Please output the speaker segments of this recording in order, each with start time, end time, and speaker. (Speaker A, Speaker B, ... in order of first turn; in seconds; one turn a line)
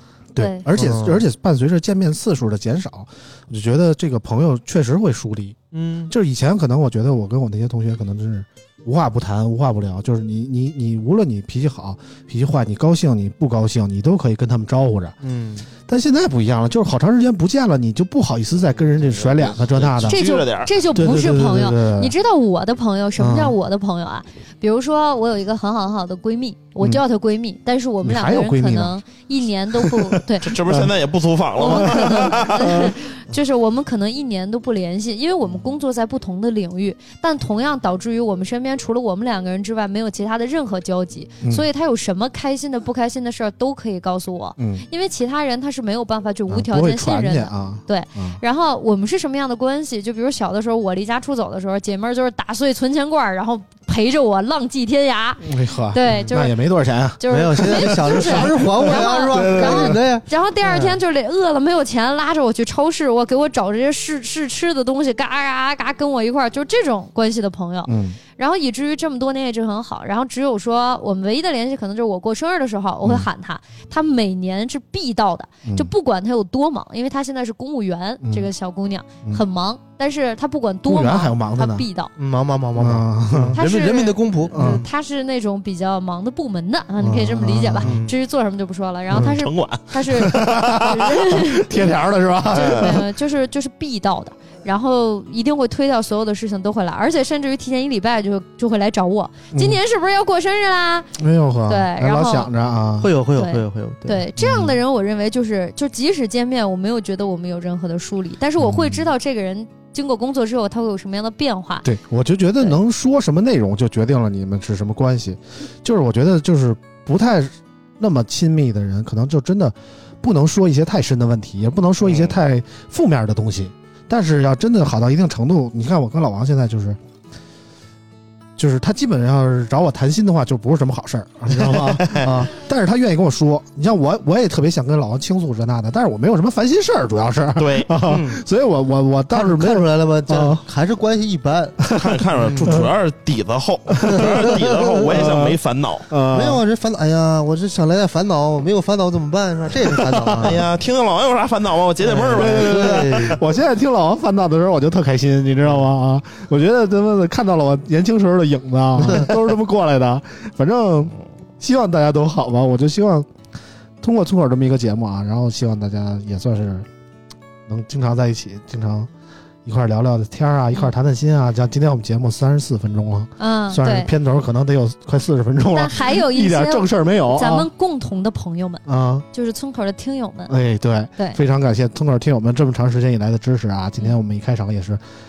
Speaker A: 0.3-5.6
Speaker B: 0.4-0.7
Speaker C: 0.7-1.2
Speaker C: 5.7-6.1
Speaker A: 6.1-15.2
Speaker C: 15.2-15.7
Speaker A: 15.9-20.2
Speaker D: 19.0-20.7
Speaker B: 20.1-30.5
Speaker A: 20.9-22.1
Speaker A: 23.2-23.6
Speaker A: 28.0-28.9
Speaker A: 29.8-30.9
Speaker D: 30.4-32.9
Speaker B: 31.6-56.6
Speaker A: 31.6-32.9
Speaker A: 44.6-44.8
Speaker A: 46.5-48.4
Speaker A: 55.4-60.0
Speaker B: 57.2-82.1
Speaker C: 57.3-60.3
Speaker A: 67.9-68.2
Speaker A: 78.2-78.5
Speaker A: 80.8-81.8
Speaker C: 82.2-84.8
Speaker A: 82.8-83.6
Speaker B: 83.5-91.7
Speaker A: 84.5-84.8
Speaker A: 87.0-88.0
Speaker C: 87.8-88.1
Speaker A: 89.1-89.4
Speaker D: 89.2-90.5
Speaker A: 90.1-93.0
Speaker D: 92.5-93.0
Speaker B: 92.5-101.1
Speaker A: 99.5-99.8
Speaker A: 101.2-103.1
Speaker B: 101.7-102.5
Speaker C: 103.0-104.2
Speaker B: 103.3-111.8
Speaker A: 104.4-104.8
Speaker A: 108.6-109.1
Speaker A: 111.8-127.0
Speaker D: 122.0-122.3
Speaker A: 128.6-140.6
Speaker D: 131.6-132.3
Speaker C: 132.2-132.5
Speaker D: 137.6-138.0
Speaker C: 138.1-138.4
Speaker C: 139.3-141.8
Speaker A: 141.8-142.9
Speaker D: 141.9-146.1
Speaker C: 142.4-142.8
Speaker A: 143.9-144.6
Speaker C: 144.1-145.2
Speaker A: 145.1-146.6
Speaker C: 146.3-150.6
Speaker A: 149.8-150.6
Speaker D: 150.3-153.4
Speaker C: 152.0-153.4
Speaker A: 152.3-163.3
Speaker C: 159.0-159.3
Speaker A: 164.0-166.9
Speaker A: 167.7-169.1
Speaker A: 169.6-177.7
Speaker B: 173.4-174.1
Speaker B: 175.7-180.5
Speaker A: 178.8-179.2
Speaker A: 180.5-185.0